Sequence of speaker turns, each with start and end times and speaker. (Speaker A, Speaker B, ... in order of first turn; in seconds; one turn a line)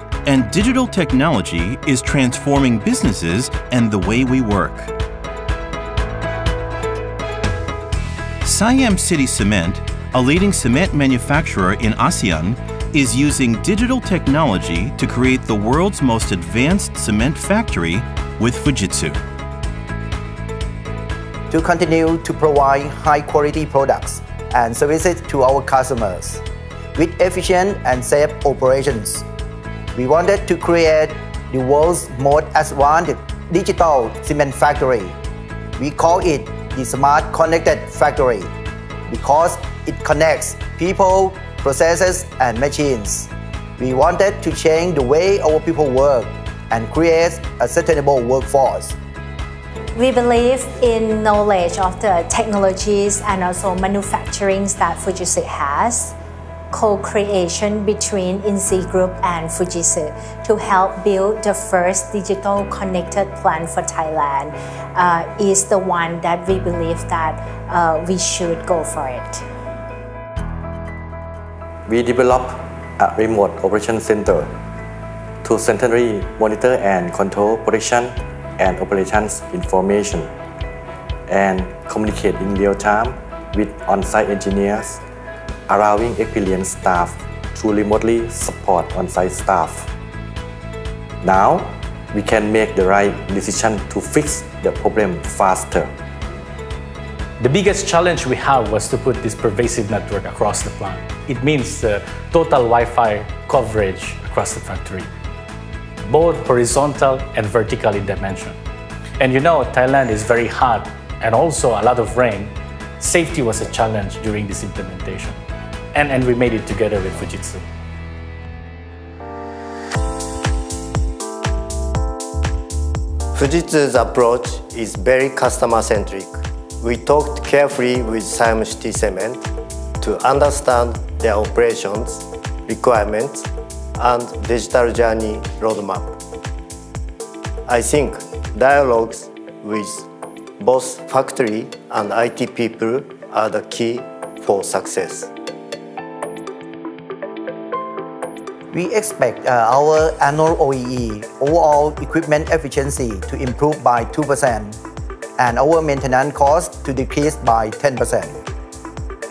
Speaker A: 0.2-4.9
Speaker A: 8.4-19.2
Speaker B: 21.5-26.4
Speaker B: 26.9-29.3
Speaker B: 29.9-35.2
Speaker B: 35.8-38.5
Speaker B: 39.1-49.0
Speaker C: 50.0-56.1
Speaker C: 56.7-69.4
Speaker D: 71.9-74.5
Speaker D: 75.4-80.3
Speaker D: 81.3-85.0
Speaker D: 85.7-89.9
Speaker D: 91.2-95.9
Speaker E: 97.4-105.1
Speaker E: 106.1-108.6
Speaker E: 109.2-115.4
Speaker E: 115.9-117.6
Speaker F: 123.3-129.4
Speaker F: 130.0-136.2
Speaker F: 137.7-140.1
Speaker F: 140.6-145.3
Speaker B: 148.7-154.8
Speaker B: 155.4-158.4